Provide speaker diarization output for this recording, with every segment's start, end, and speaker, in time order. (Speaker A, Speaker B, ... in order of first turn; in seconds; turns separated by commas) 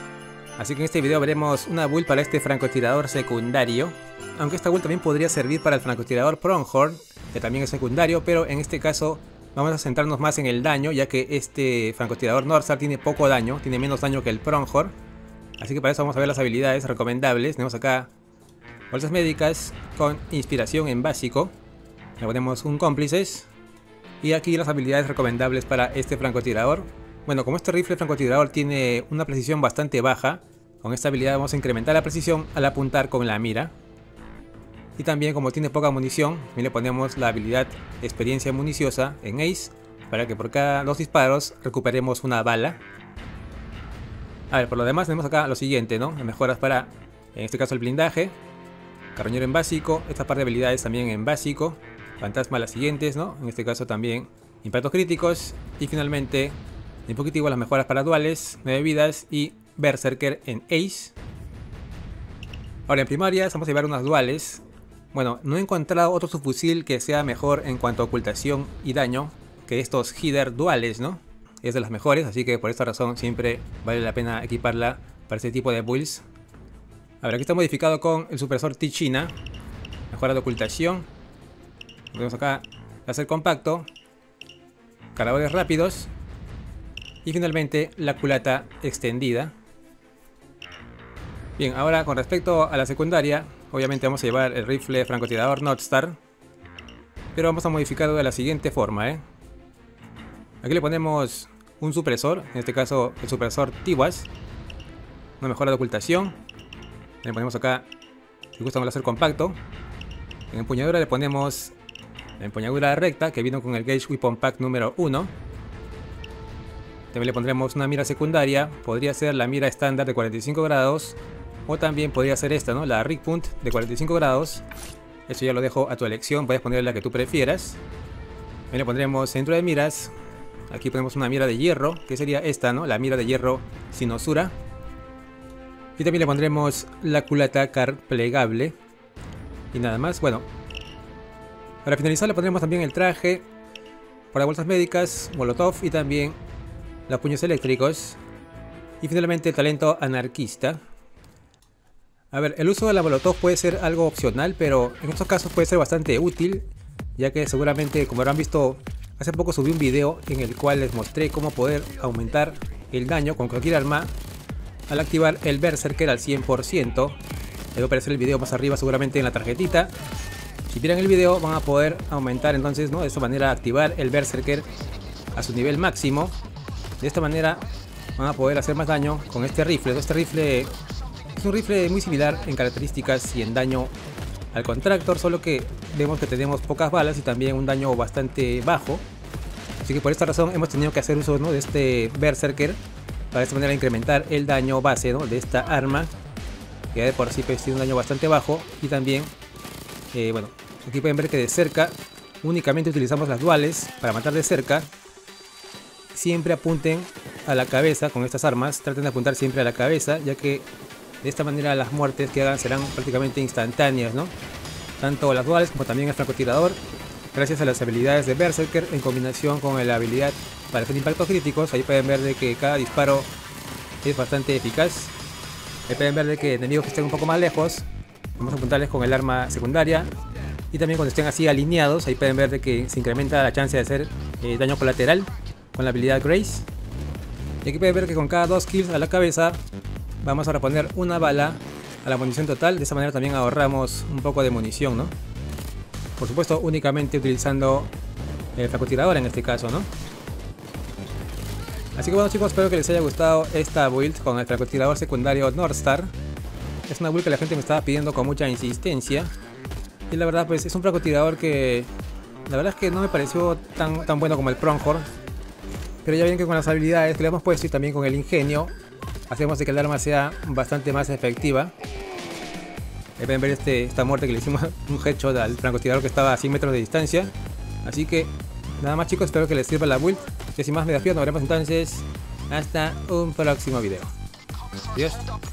Speaker A: 0.6-14.9, Speaker A: 15.6-18.1, Speaker A: 18.9-21.5, Speaker A: 22.2-23.5, Speaker A: 24.2-33.7, Speaker A: 35.0-42.8, Speaker A: 44.5-48.4, Speaker A: 49.1-61.1, Speaker A: 62.9-76.2, Speaker A: 77.2-79.3, Speaker A: 80.1-81.1, Speaker A: 82.1-83.9, Speaker A: 85.2-86.1, Speaker A: 87.2-89.5, Speaker A: 91.6-96.2, Speaker A: 97.3-99.2, Speaker A: 100.6-104.3, Speaker A: 105.4-106.4, Speaker A: 107.2-107.9, Speaker A: 108.5-109.6, Speaker A: 110.5-111.8, Speaker A: 112.4-115.3, Speaker A: 117.1-124.7, Speaker A: 125.3-127.8, Speaker A: 128.7-130.1, Speaker A: 130.7-134.5, Speaker A: 136.0-138.8, Speaker A: 139.7-140.5, Speaker A: 141.8-143.5, Speaker A: 144.3-146.4, Speaker A: 147.1-148.2, Speaker A: 149.0-150.8, Speaker A: 152.3-164.1, Speaker A: 164.9-167.2, Speaker A: 167.8-169.9, Speaker A: 170.7-174.7, Speaker A: 175.3-176.3, Speaker A: 177.0-177.7, Speaker A: 178.2-180.7, Speaker A: 181.4-183.9, Speaker A: 184.5-189.0, Speaker A: 189.8-192.8, Speaker A: 193.3-196.1, Speaker A: 196.9-199.3, Speaker A: 200.1-204.9, Speaker A: 206.1-210.7, Speaker A: 211.2-214.3, Speaker A: 215.0-216.8, Speaker A: 217.3-223.3, Speaker A: 224.0-225.1, Speaker A: 225.9-230.1, Speaker A: 230.7-236.7, Speaker A: 237.6-239.6, Speaker A: 240.2-245.1, Speaker A: 246.2-247.9, Speaker A: 248.6-249.9, Speaker A: 252.0-256.1, Speaker A: 256.9-259.3, Speaker A: 260.1-261.9, Speaker A: 262.5-265.1, Speaker A: 266.1-268.7, Speaker A: 269.3-271.7, Speaker A: 273.2-277.3, Speaker A: 277.9-284.1, Speaker A: 284.9-285.3